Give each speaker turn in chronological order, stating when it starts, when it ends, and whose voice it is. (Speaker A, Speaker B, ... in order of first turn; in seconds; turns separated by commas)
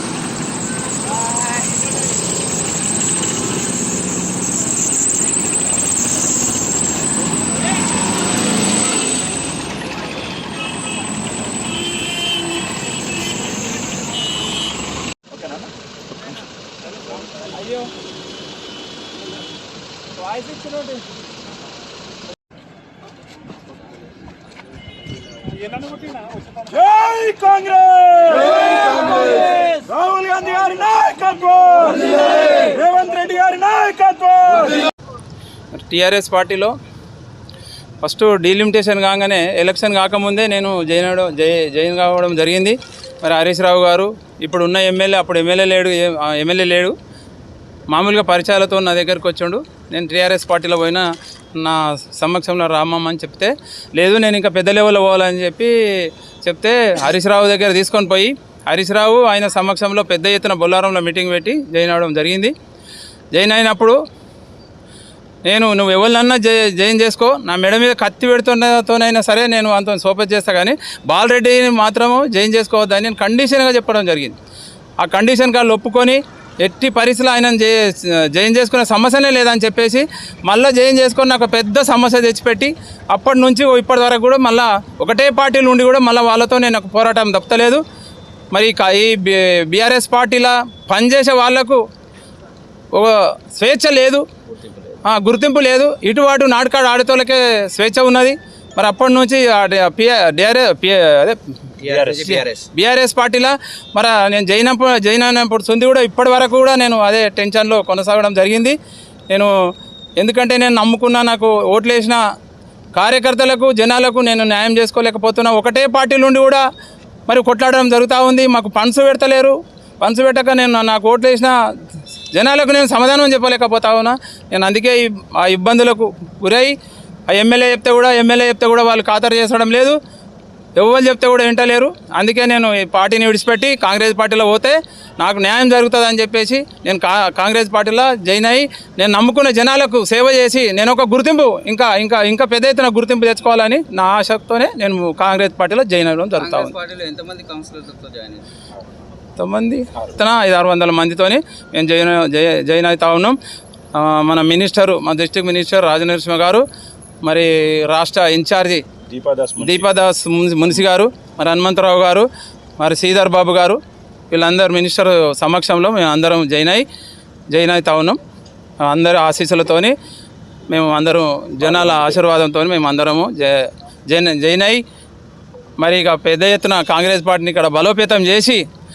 Speaker A: 26.9-28.4, Speaker A: 30.2-31.7, Speaker B: 35.8-36.7, Speaker B: 38.0-46.9, Speaker B: 47.9-51.0, Speaker B: 51.6-55.7, Speaker B: 56.4-62.5, Speaker B: 63.3-64.0, Speaker B: 65.5-74.3, Speaker B: 75.0-87.8, Speaker B: 88.5-91.8, Speaker B: 92.9-94.2, Speaker C: 94.5-95.0, Speaker B: 95.1-108.8, Speaker C: 101.8-102.7, Speaker B: 110.2-112.2, Speaker B: 113.0-116.6, Speaker B: 117.3-121.5, Speaker B: 122.3-126.7, Speaker B: 127.3-130.0, Speaker B: 130.8-146.8, Speaker C: 146.3-148.4, Speaker B: 149.4-153.4, Speaker B: 153.9-156.6, Speaker B: 157.2-158.8, Speaker A: 159.1-159.9, Speaker B: 159.6-162.3, Speaker B: 162.8-163.8, Speaker B: 164.3-166.8, Speaker B: 167.5-168.2, Speaker B: 168.8-169.9, Speaker B: 170.7-174.8, Speaker A: 171.6-172.2, Speaker B: 175.8-178.6